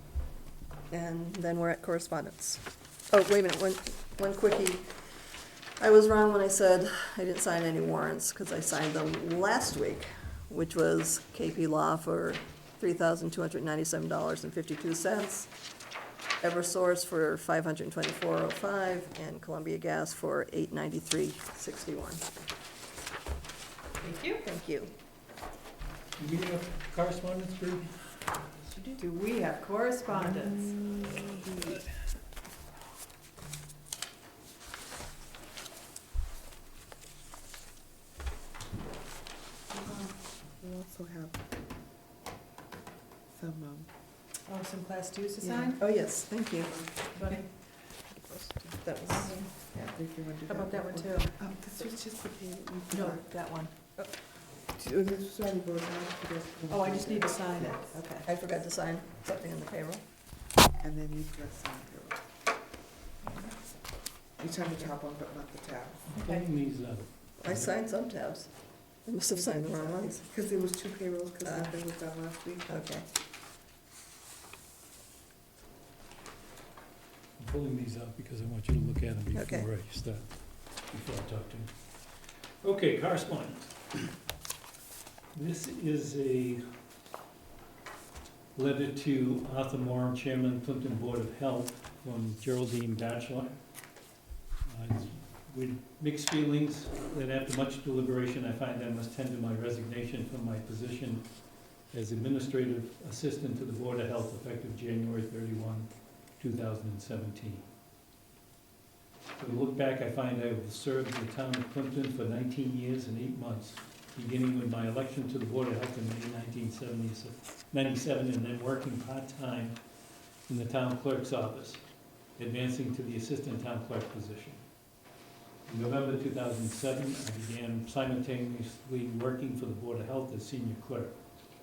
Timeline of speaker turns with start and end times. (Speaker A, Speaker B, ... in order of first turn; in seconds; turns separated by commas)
Speaker A: 0.9-4.9, Speaker A: 5.8-15.5, Speaker A: 16.4-22.2, Speaker B: 24.0-24.4, Speaker A: 24.4-24.9, Speaker C: 26.2-28.4, Speaker B: 28.9-30.7, Speaker D: 30.2-31.8, Speaker D: 39.9-41.4, Speaker D: 43.3-43.9, Speaker B: 44.4-45.8, Speaker D: 45.4-45.8, Speaker A: 45.8-46.9, Speaker D: 47.0-47.4, Speaker B: 47.1-47.5, Speaker D: 48.6-53.3, Speaker A: 48.7-50.1, Speaker B: 49.2-49.5, Speaker B: 50.5-51.4, Speaker B: 52.9-54.1, Speaker D: 54.7-57.7, Speaker B: 56.7-58.2, Speaker A: 58.2-60.0, Speaker D: 60.8-62.2, Speaker B: 63.2-63.5, Speaker D: 64.4-66.0, Speaker C: 66.1-67.7, Speaker B: 66.1-66.5, Speaker A: 67.4-70.3, Speaker D: 69.5-72.8, Speaker A: 71.4-71.8, Speaker A: 72.7-73.1, Speaker C: 77.4-81.7, Speaker A: 79.3-79.7, Speaker C: 82.6-84.0, Speaker C: 85.3-86.6, Speaker C: 88.5-93.6, Speaker C: 94.7-101.3, Speaker C: 101.9-107.7, Speaker C: 109.4-119.8, Speaker C: 120.5-121.8, Speaker C: 122.4-124.6, Speaker C: 125.7-131.2